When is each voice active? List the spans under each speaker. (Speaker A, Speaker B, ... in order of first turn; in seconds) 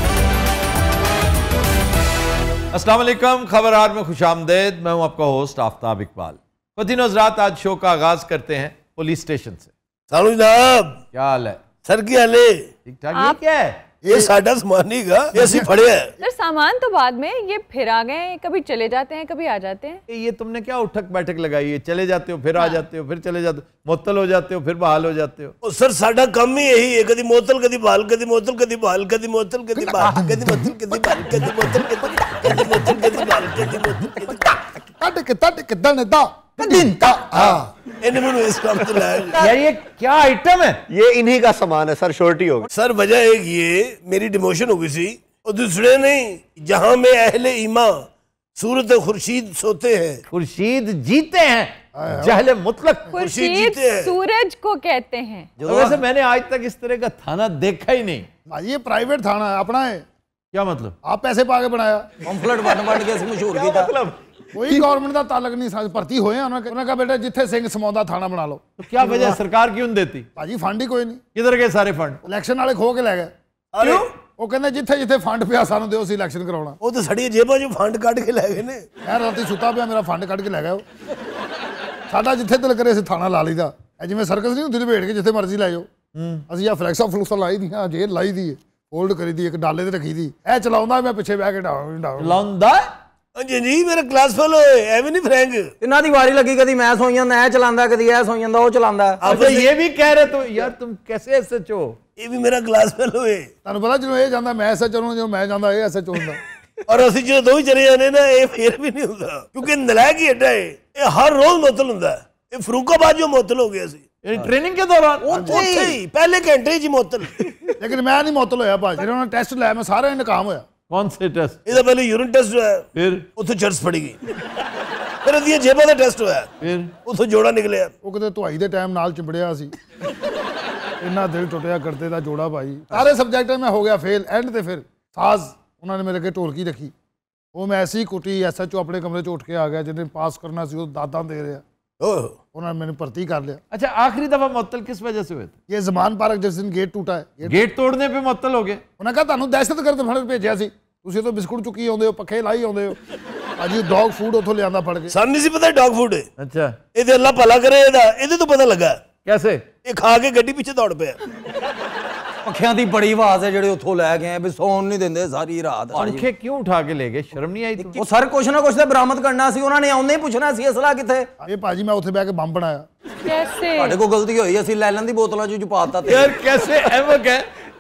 Speaker A: 2.7-9.7, 11.1-11.6, 12.9-13.8, 20.1-25.5, 39.4-40.8, 50.3-53.1, 55.6-58.3, 60.5-61.0, 68.8-70.3, 71.3-72.2, 86.2-86.4, 92.2-92.9, 99.2-102.0, 114.2-115.3, 120.9-121.6, 123.0-123.3, 126.6-126.9, 143.7-145.5, 147.4-148.8, 156.4-156.8, 159.2-159.7, 165.9-168.0, 176.1-177.5
Speaker B: 10.1-11.0, 11.8-12.7, 14.1-16.1, 25.6-34.5, 37.3-39.4, 42.7-50.2, 53.2-54.1, 73.7-74.1, 76.8-78.8, 93.4-95.7, 99.2-99.7, 102.2-103.5, 106.9-114.0, 115.3-117.5, 121.7-124.2, 125.2-127.9, 142.0-142.4, 155.1-156.3, 156.9-159.0, 159.8-161.2
Speaker C: 15.4-15.7, 29.8-30.6, 35.0-37.7, 52.0-52.4, 58.5-60.0, 61.0-62.1, 64.5-68.7, 70.4-71.2, 72.2-76.8, 79.0-80.8, 82.1-85.9, 86.5-92.4, 103.7-106.4, 115.3-115.6, 117.8-120.7, 128.0-129.7, 131.0-136.9, 137.5-141.6, 142.5-143.6, 145.7-147.6, 149.0-153.0, 153.6-155.2, 171.4-172.9
Speaker D: 16.2-20.0, 53.1-55.5, 173.2-174.0
Speaker E: 40.9-42.7, 55.6-56.0, 63.6-64.1
Speaker F: 62.2-64.0, 95.8-99.2, 115.2-116.0, 162.4-166.3, 167.8-171.3, 173.8-176.4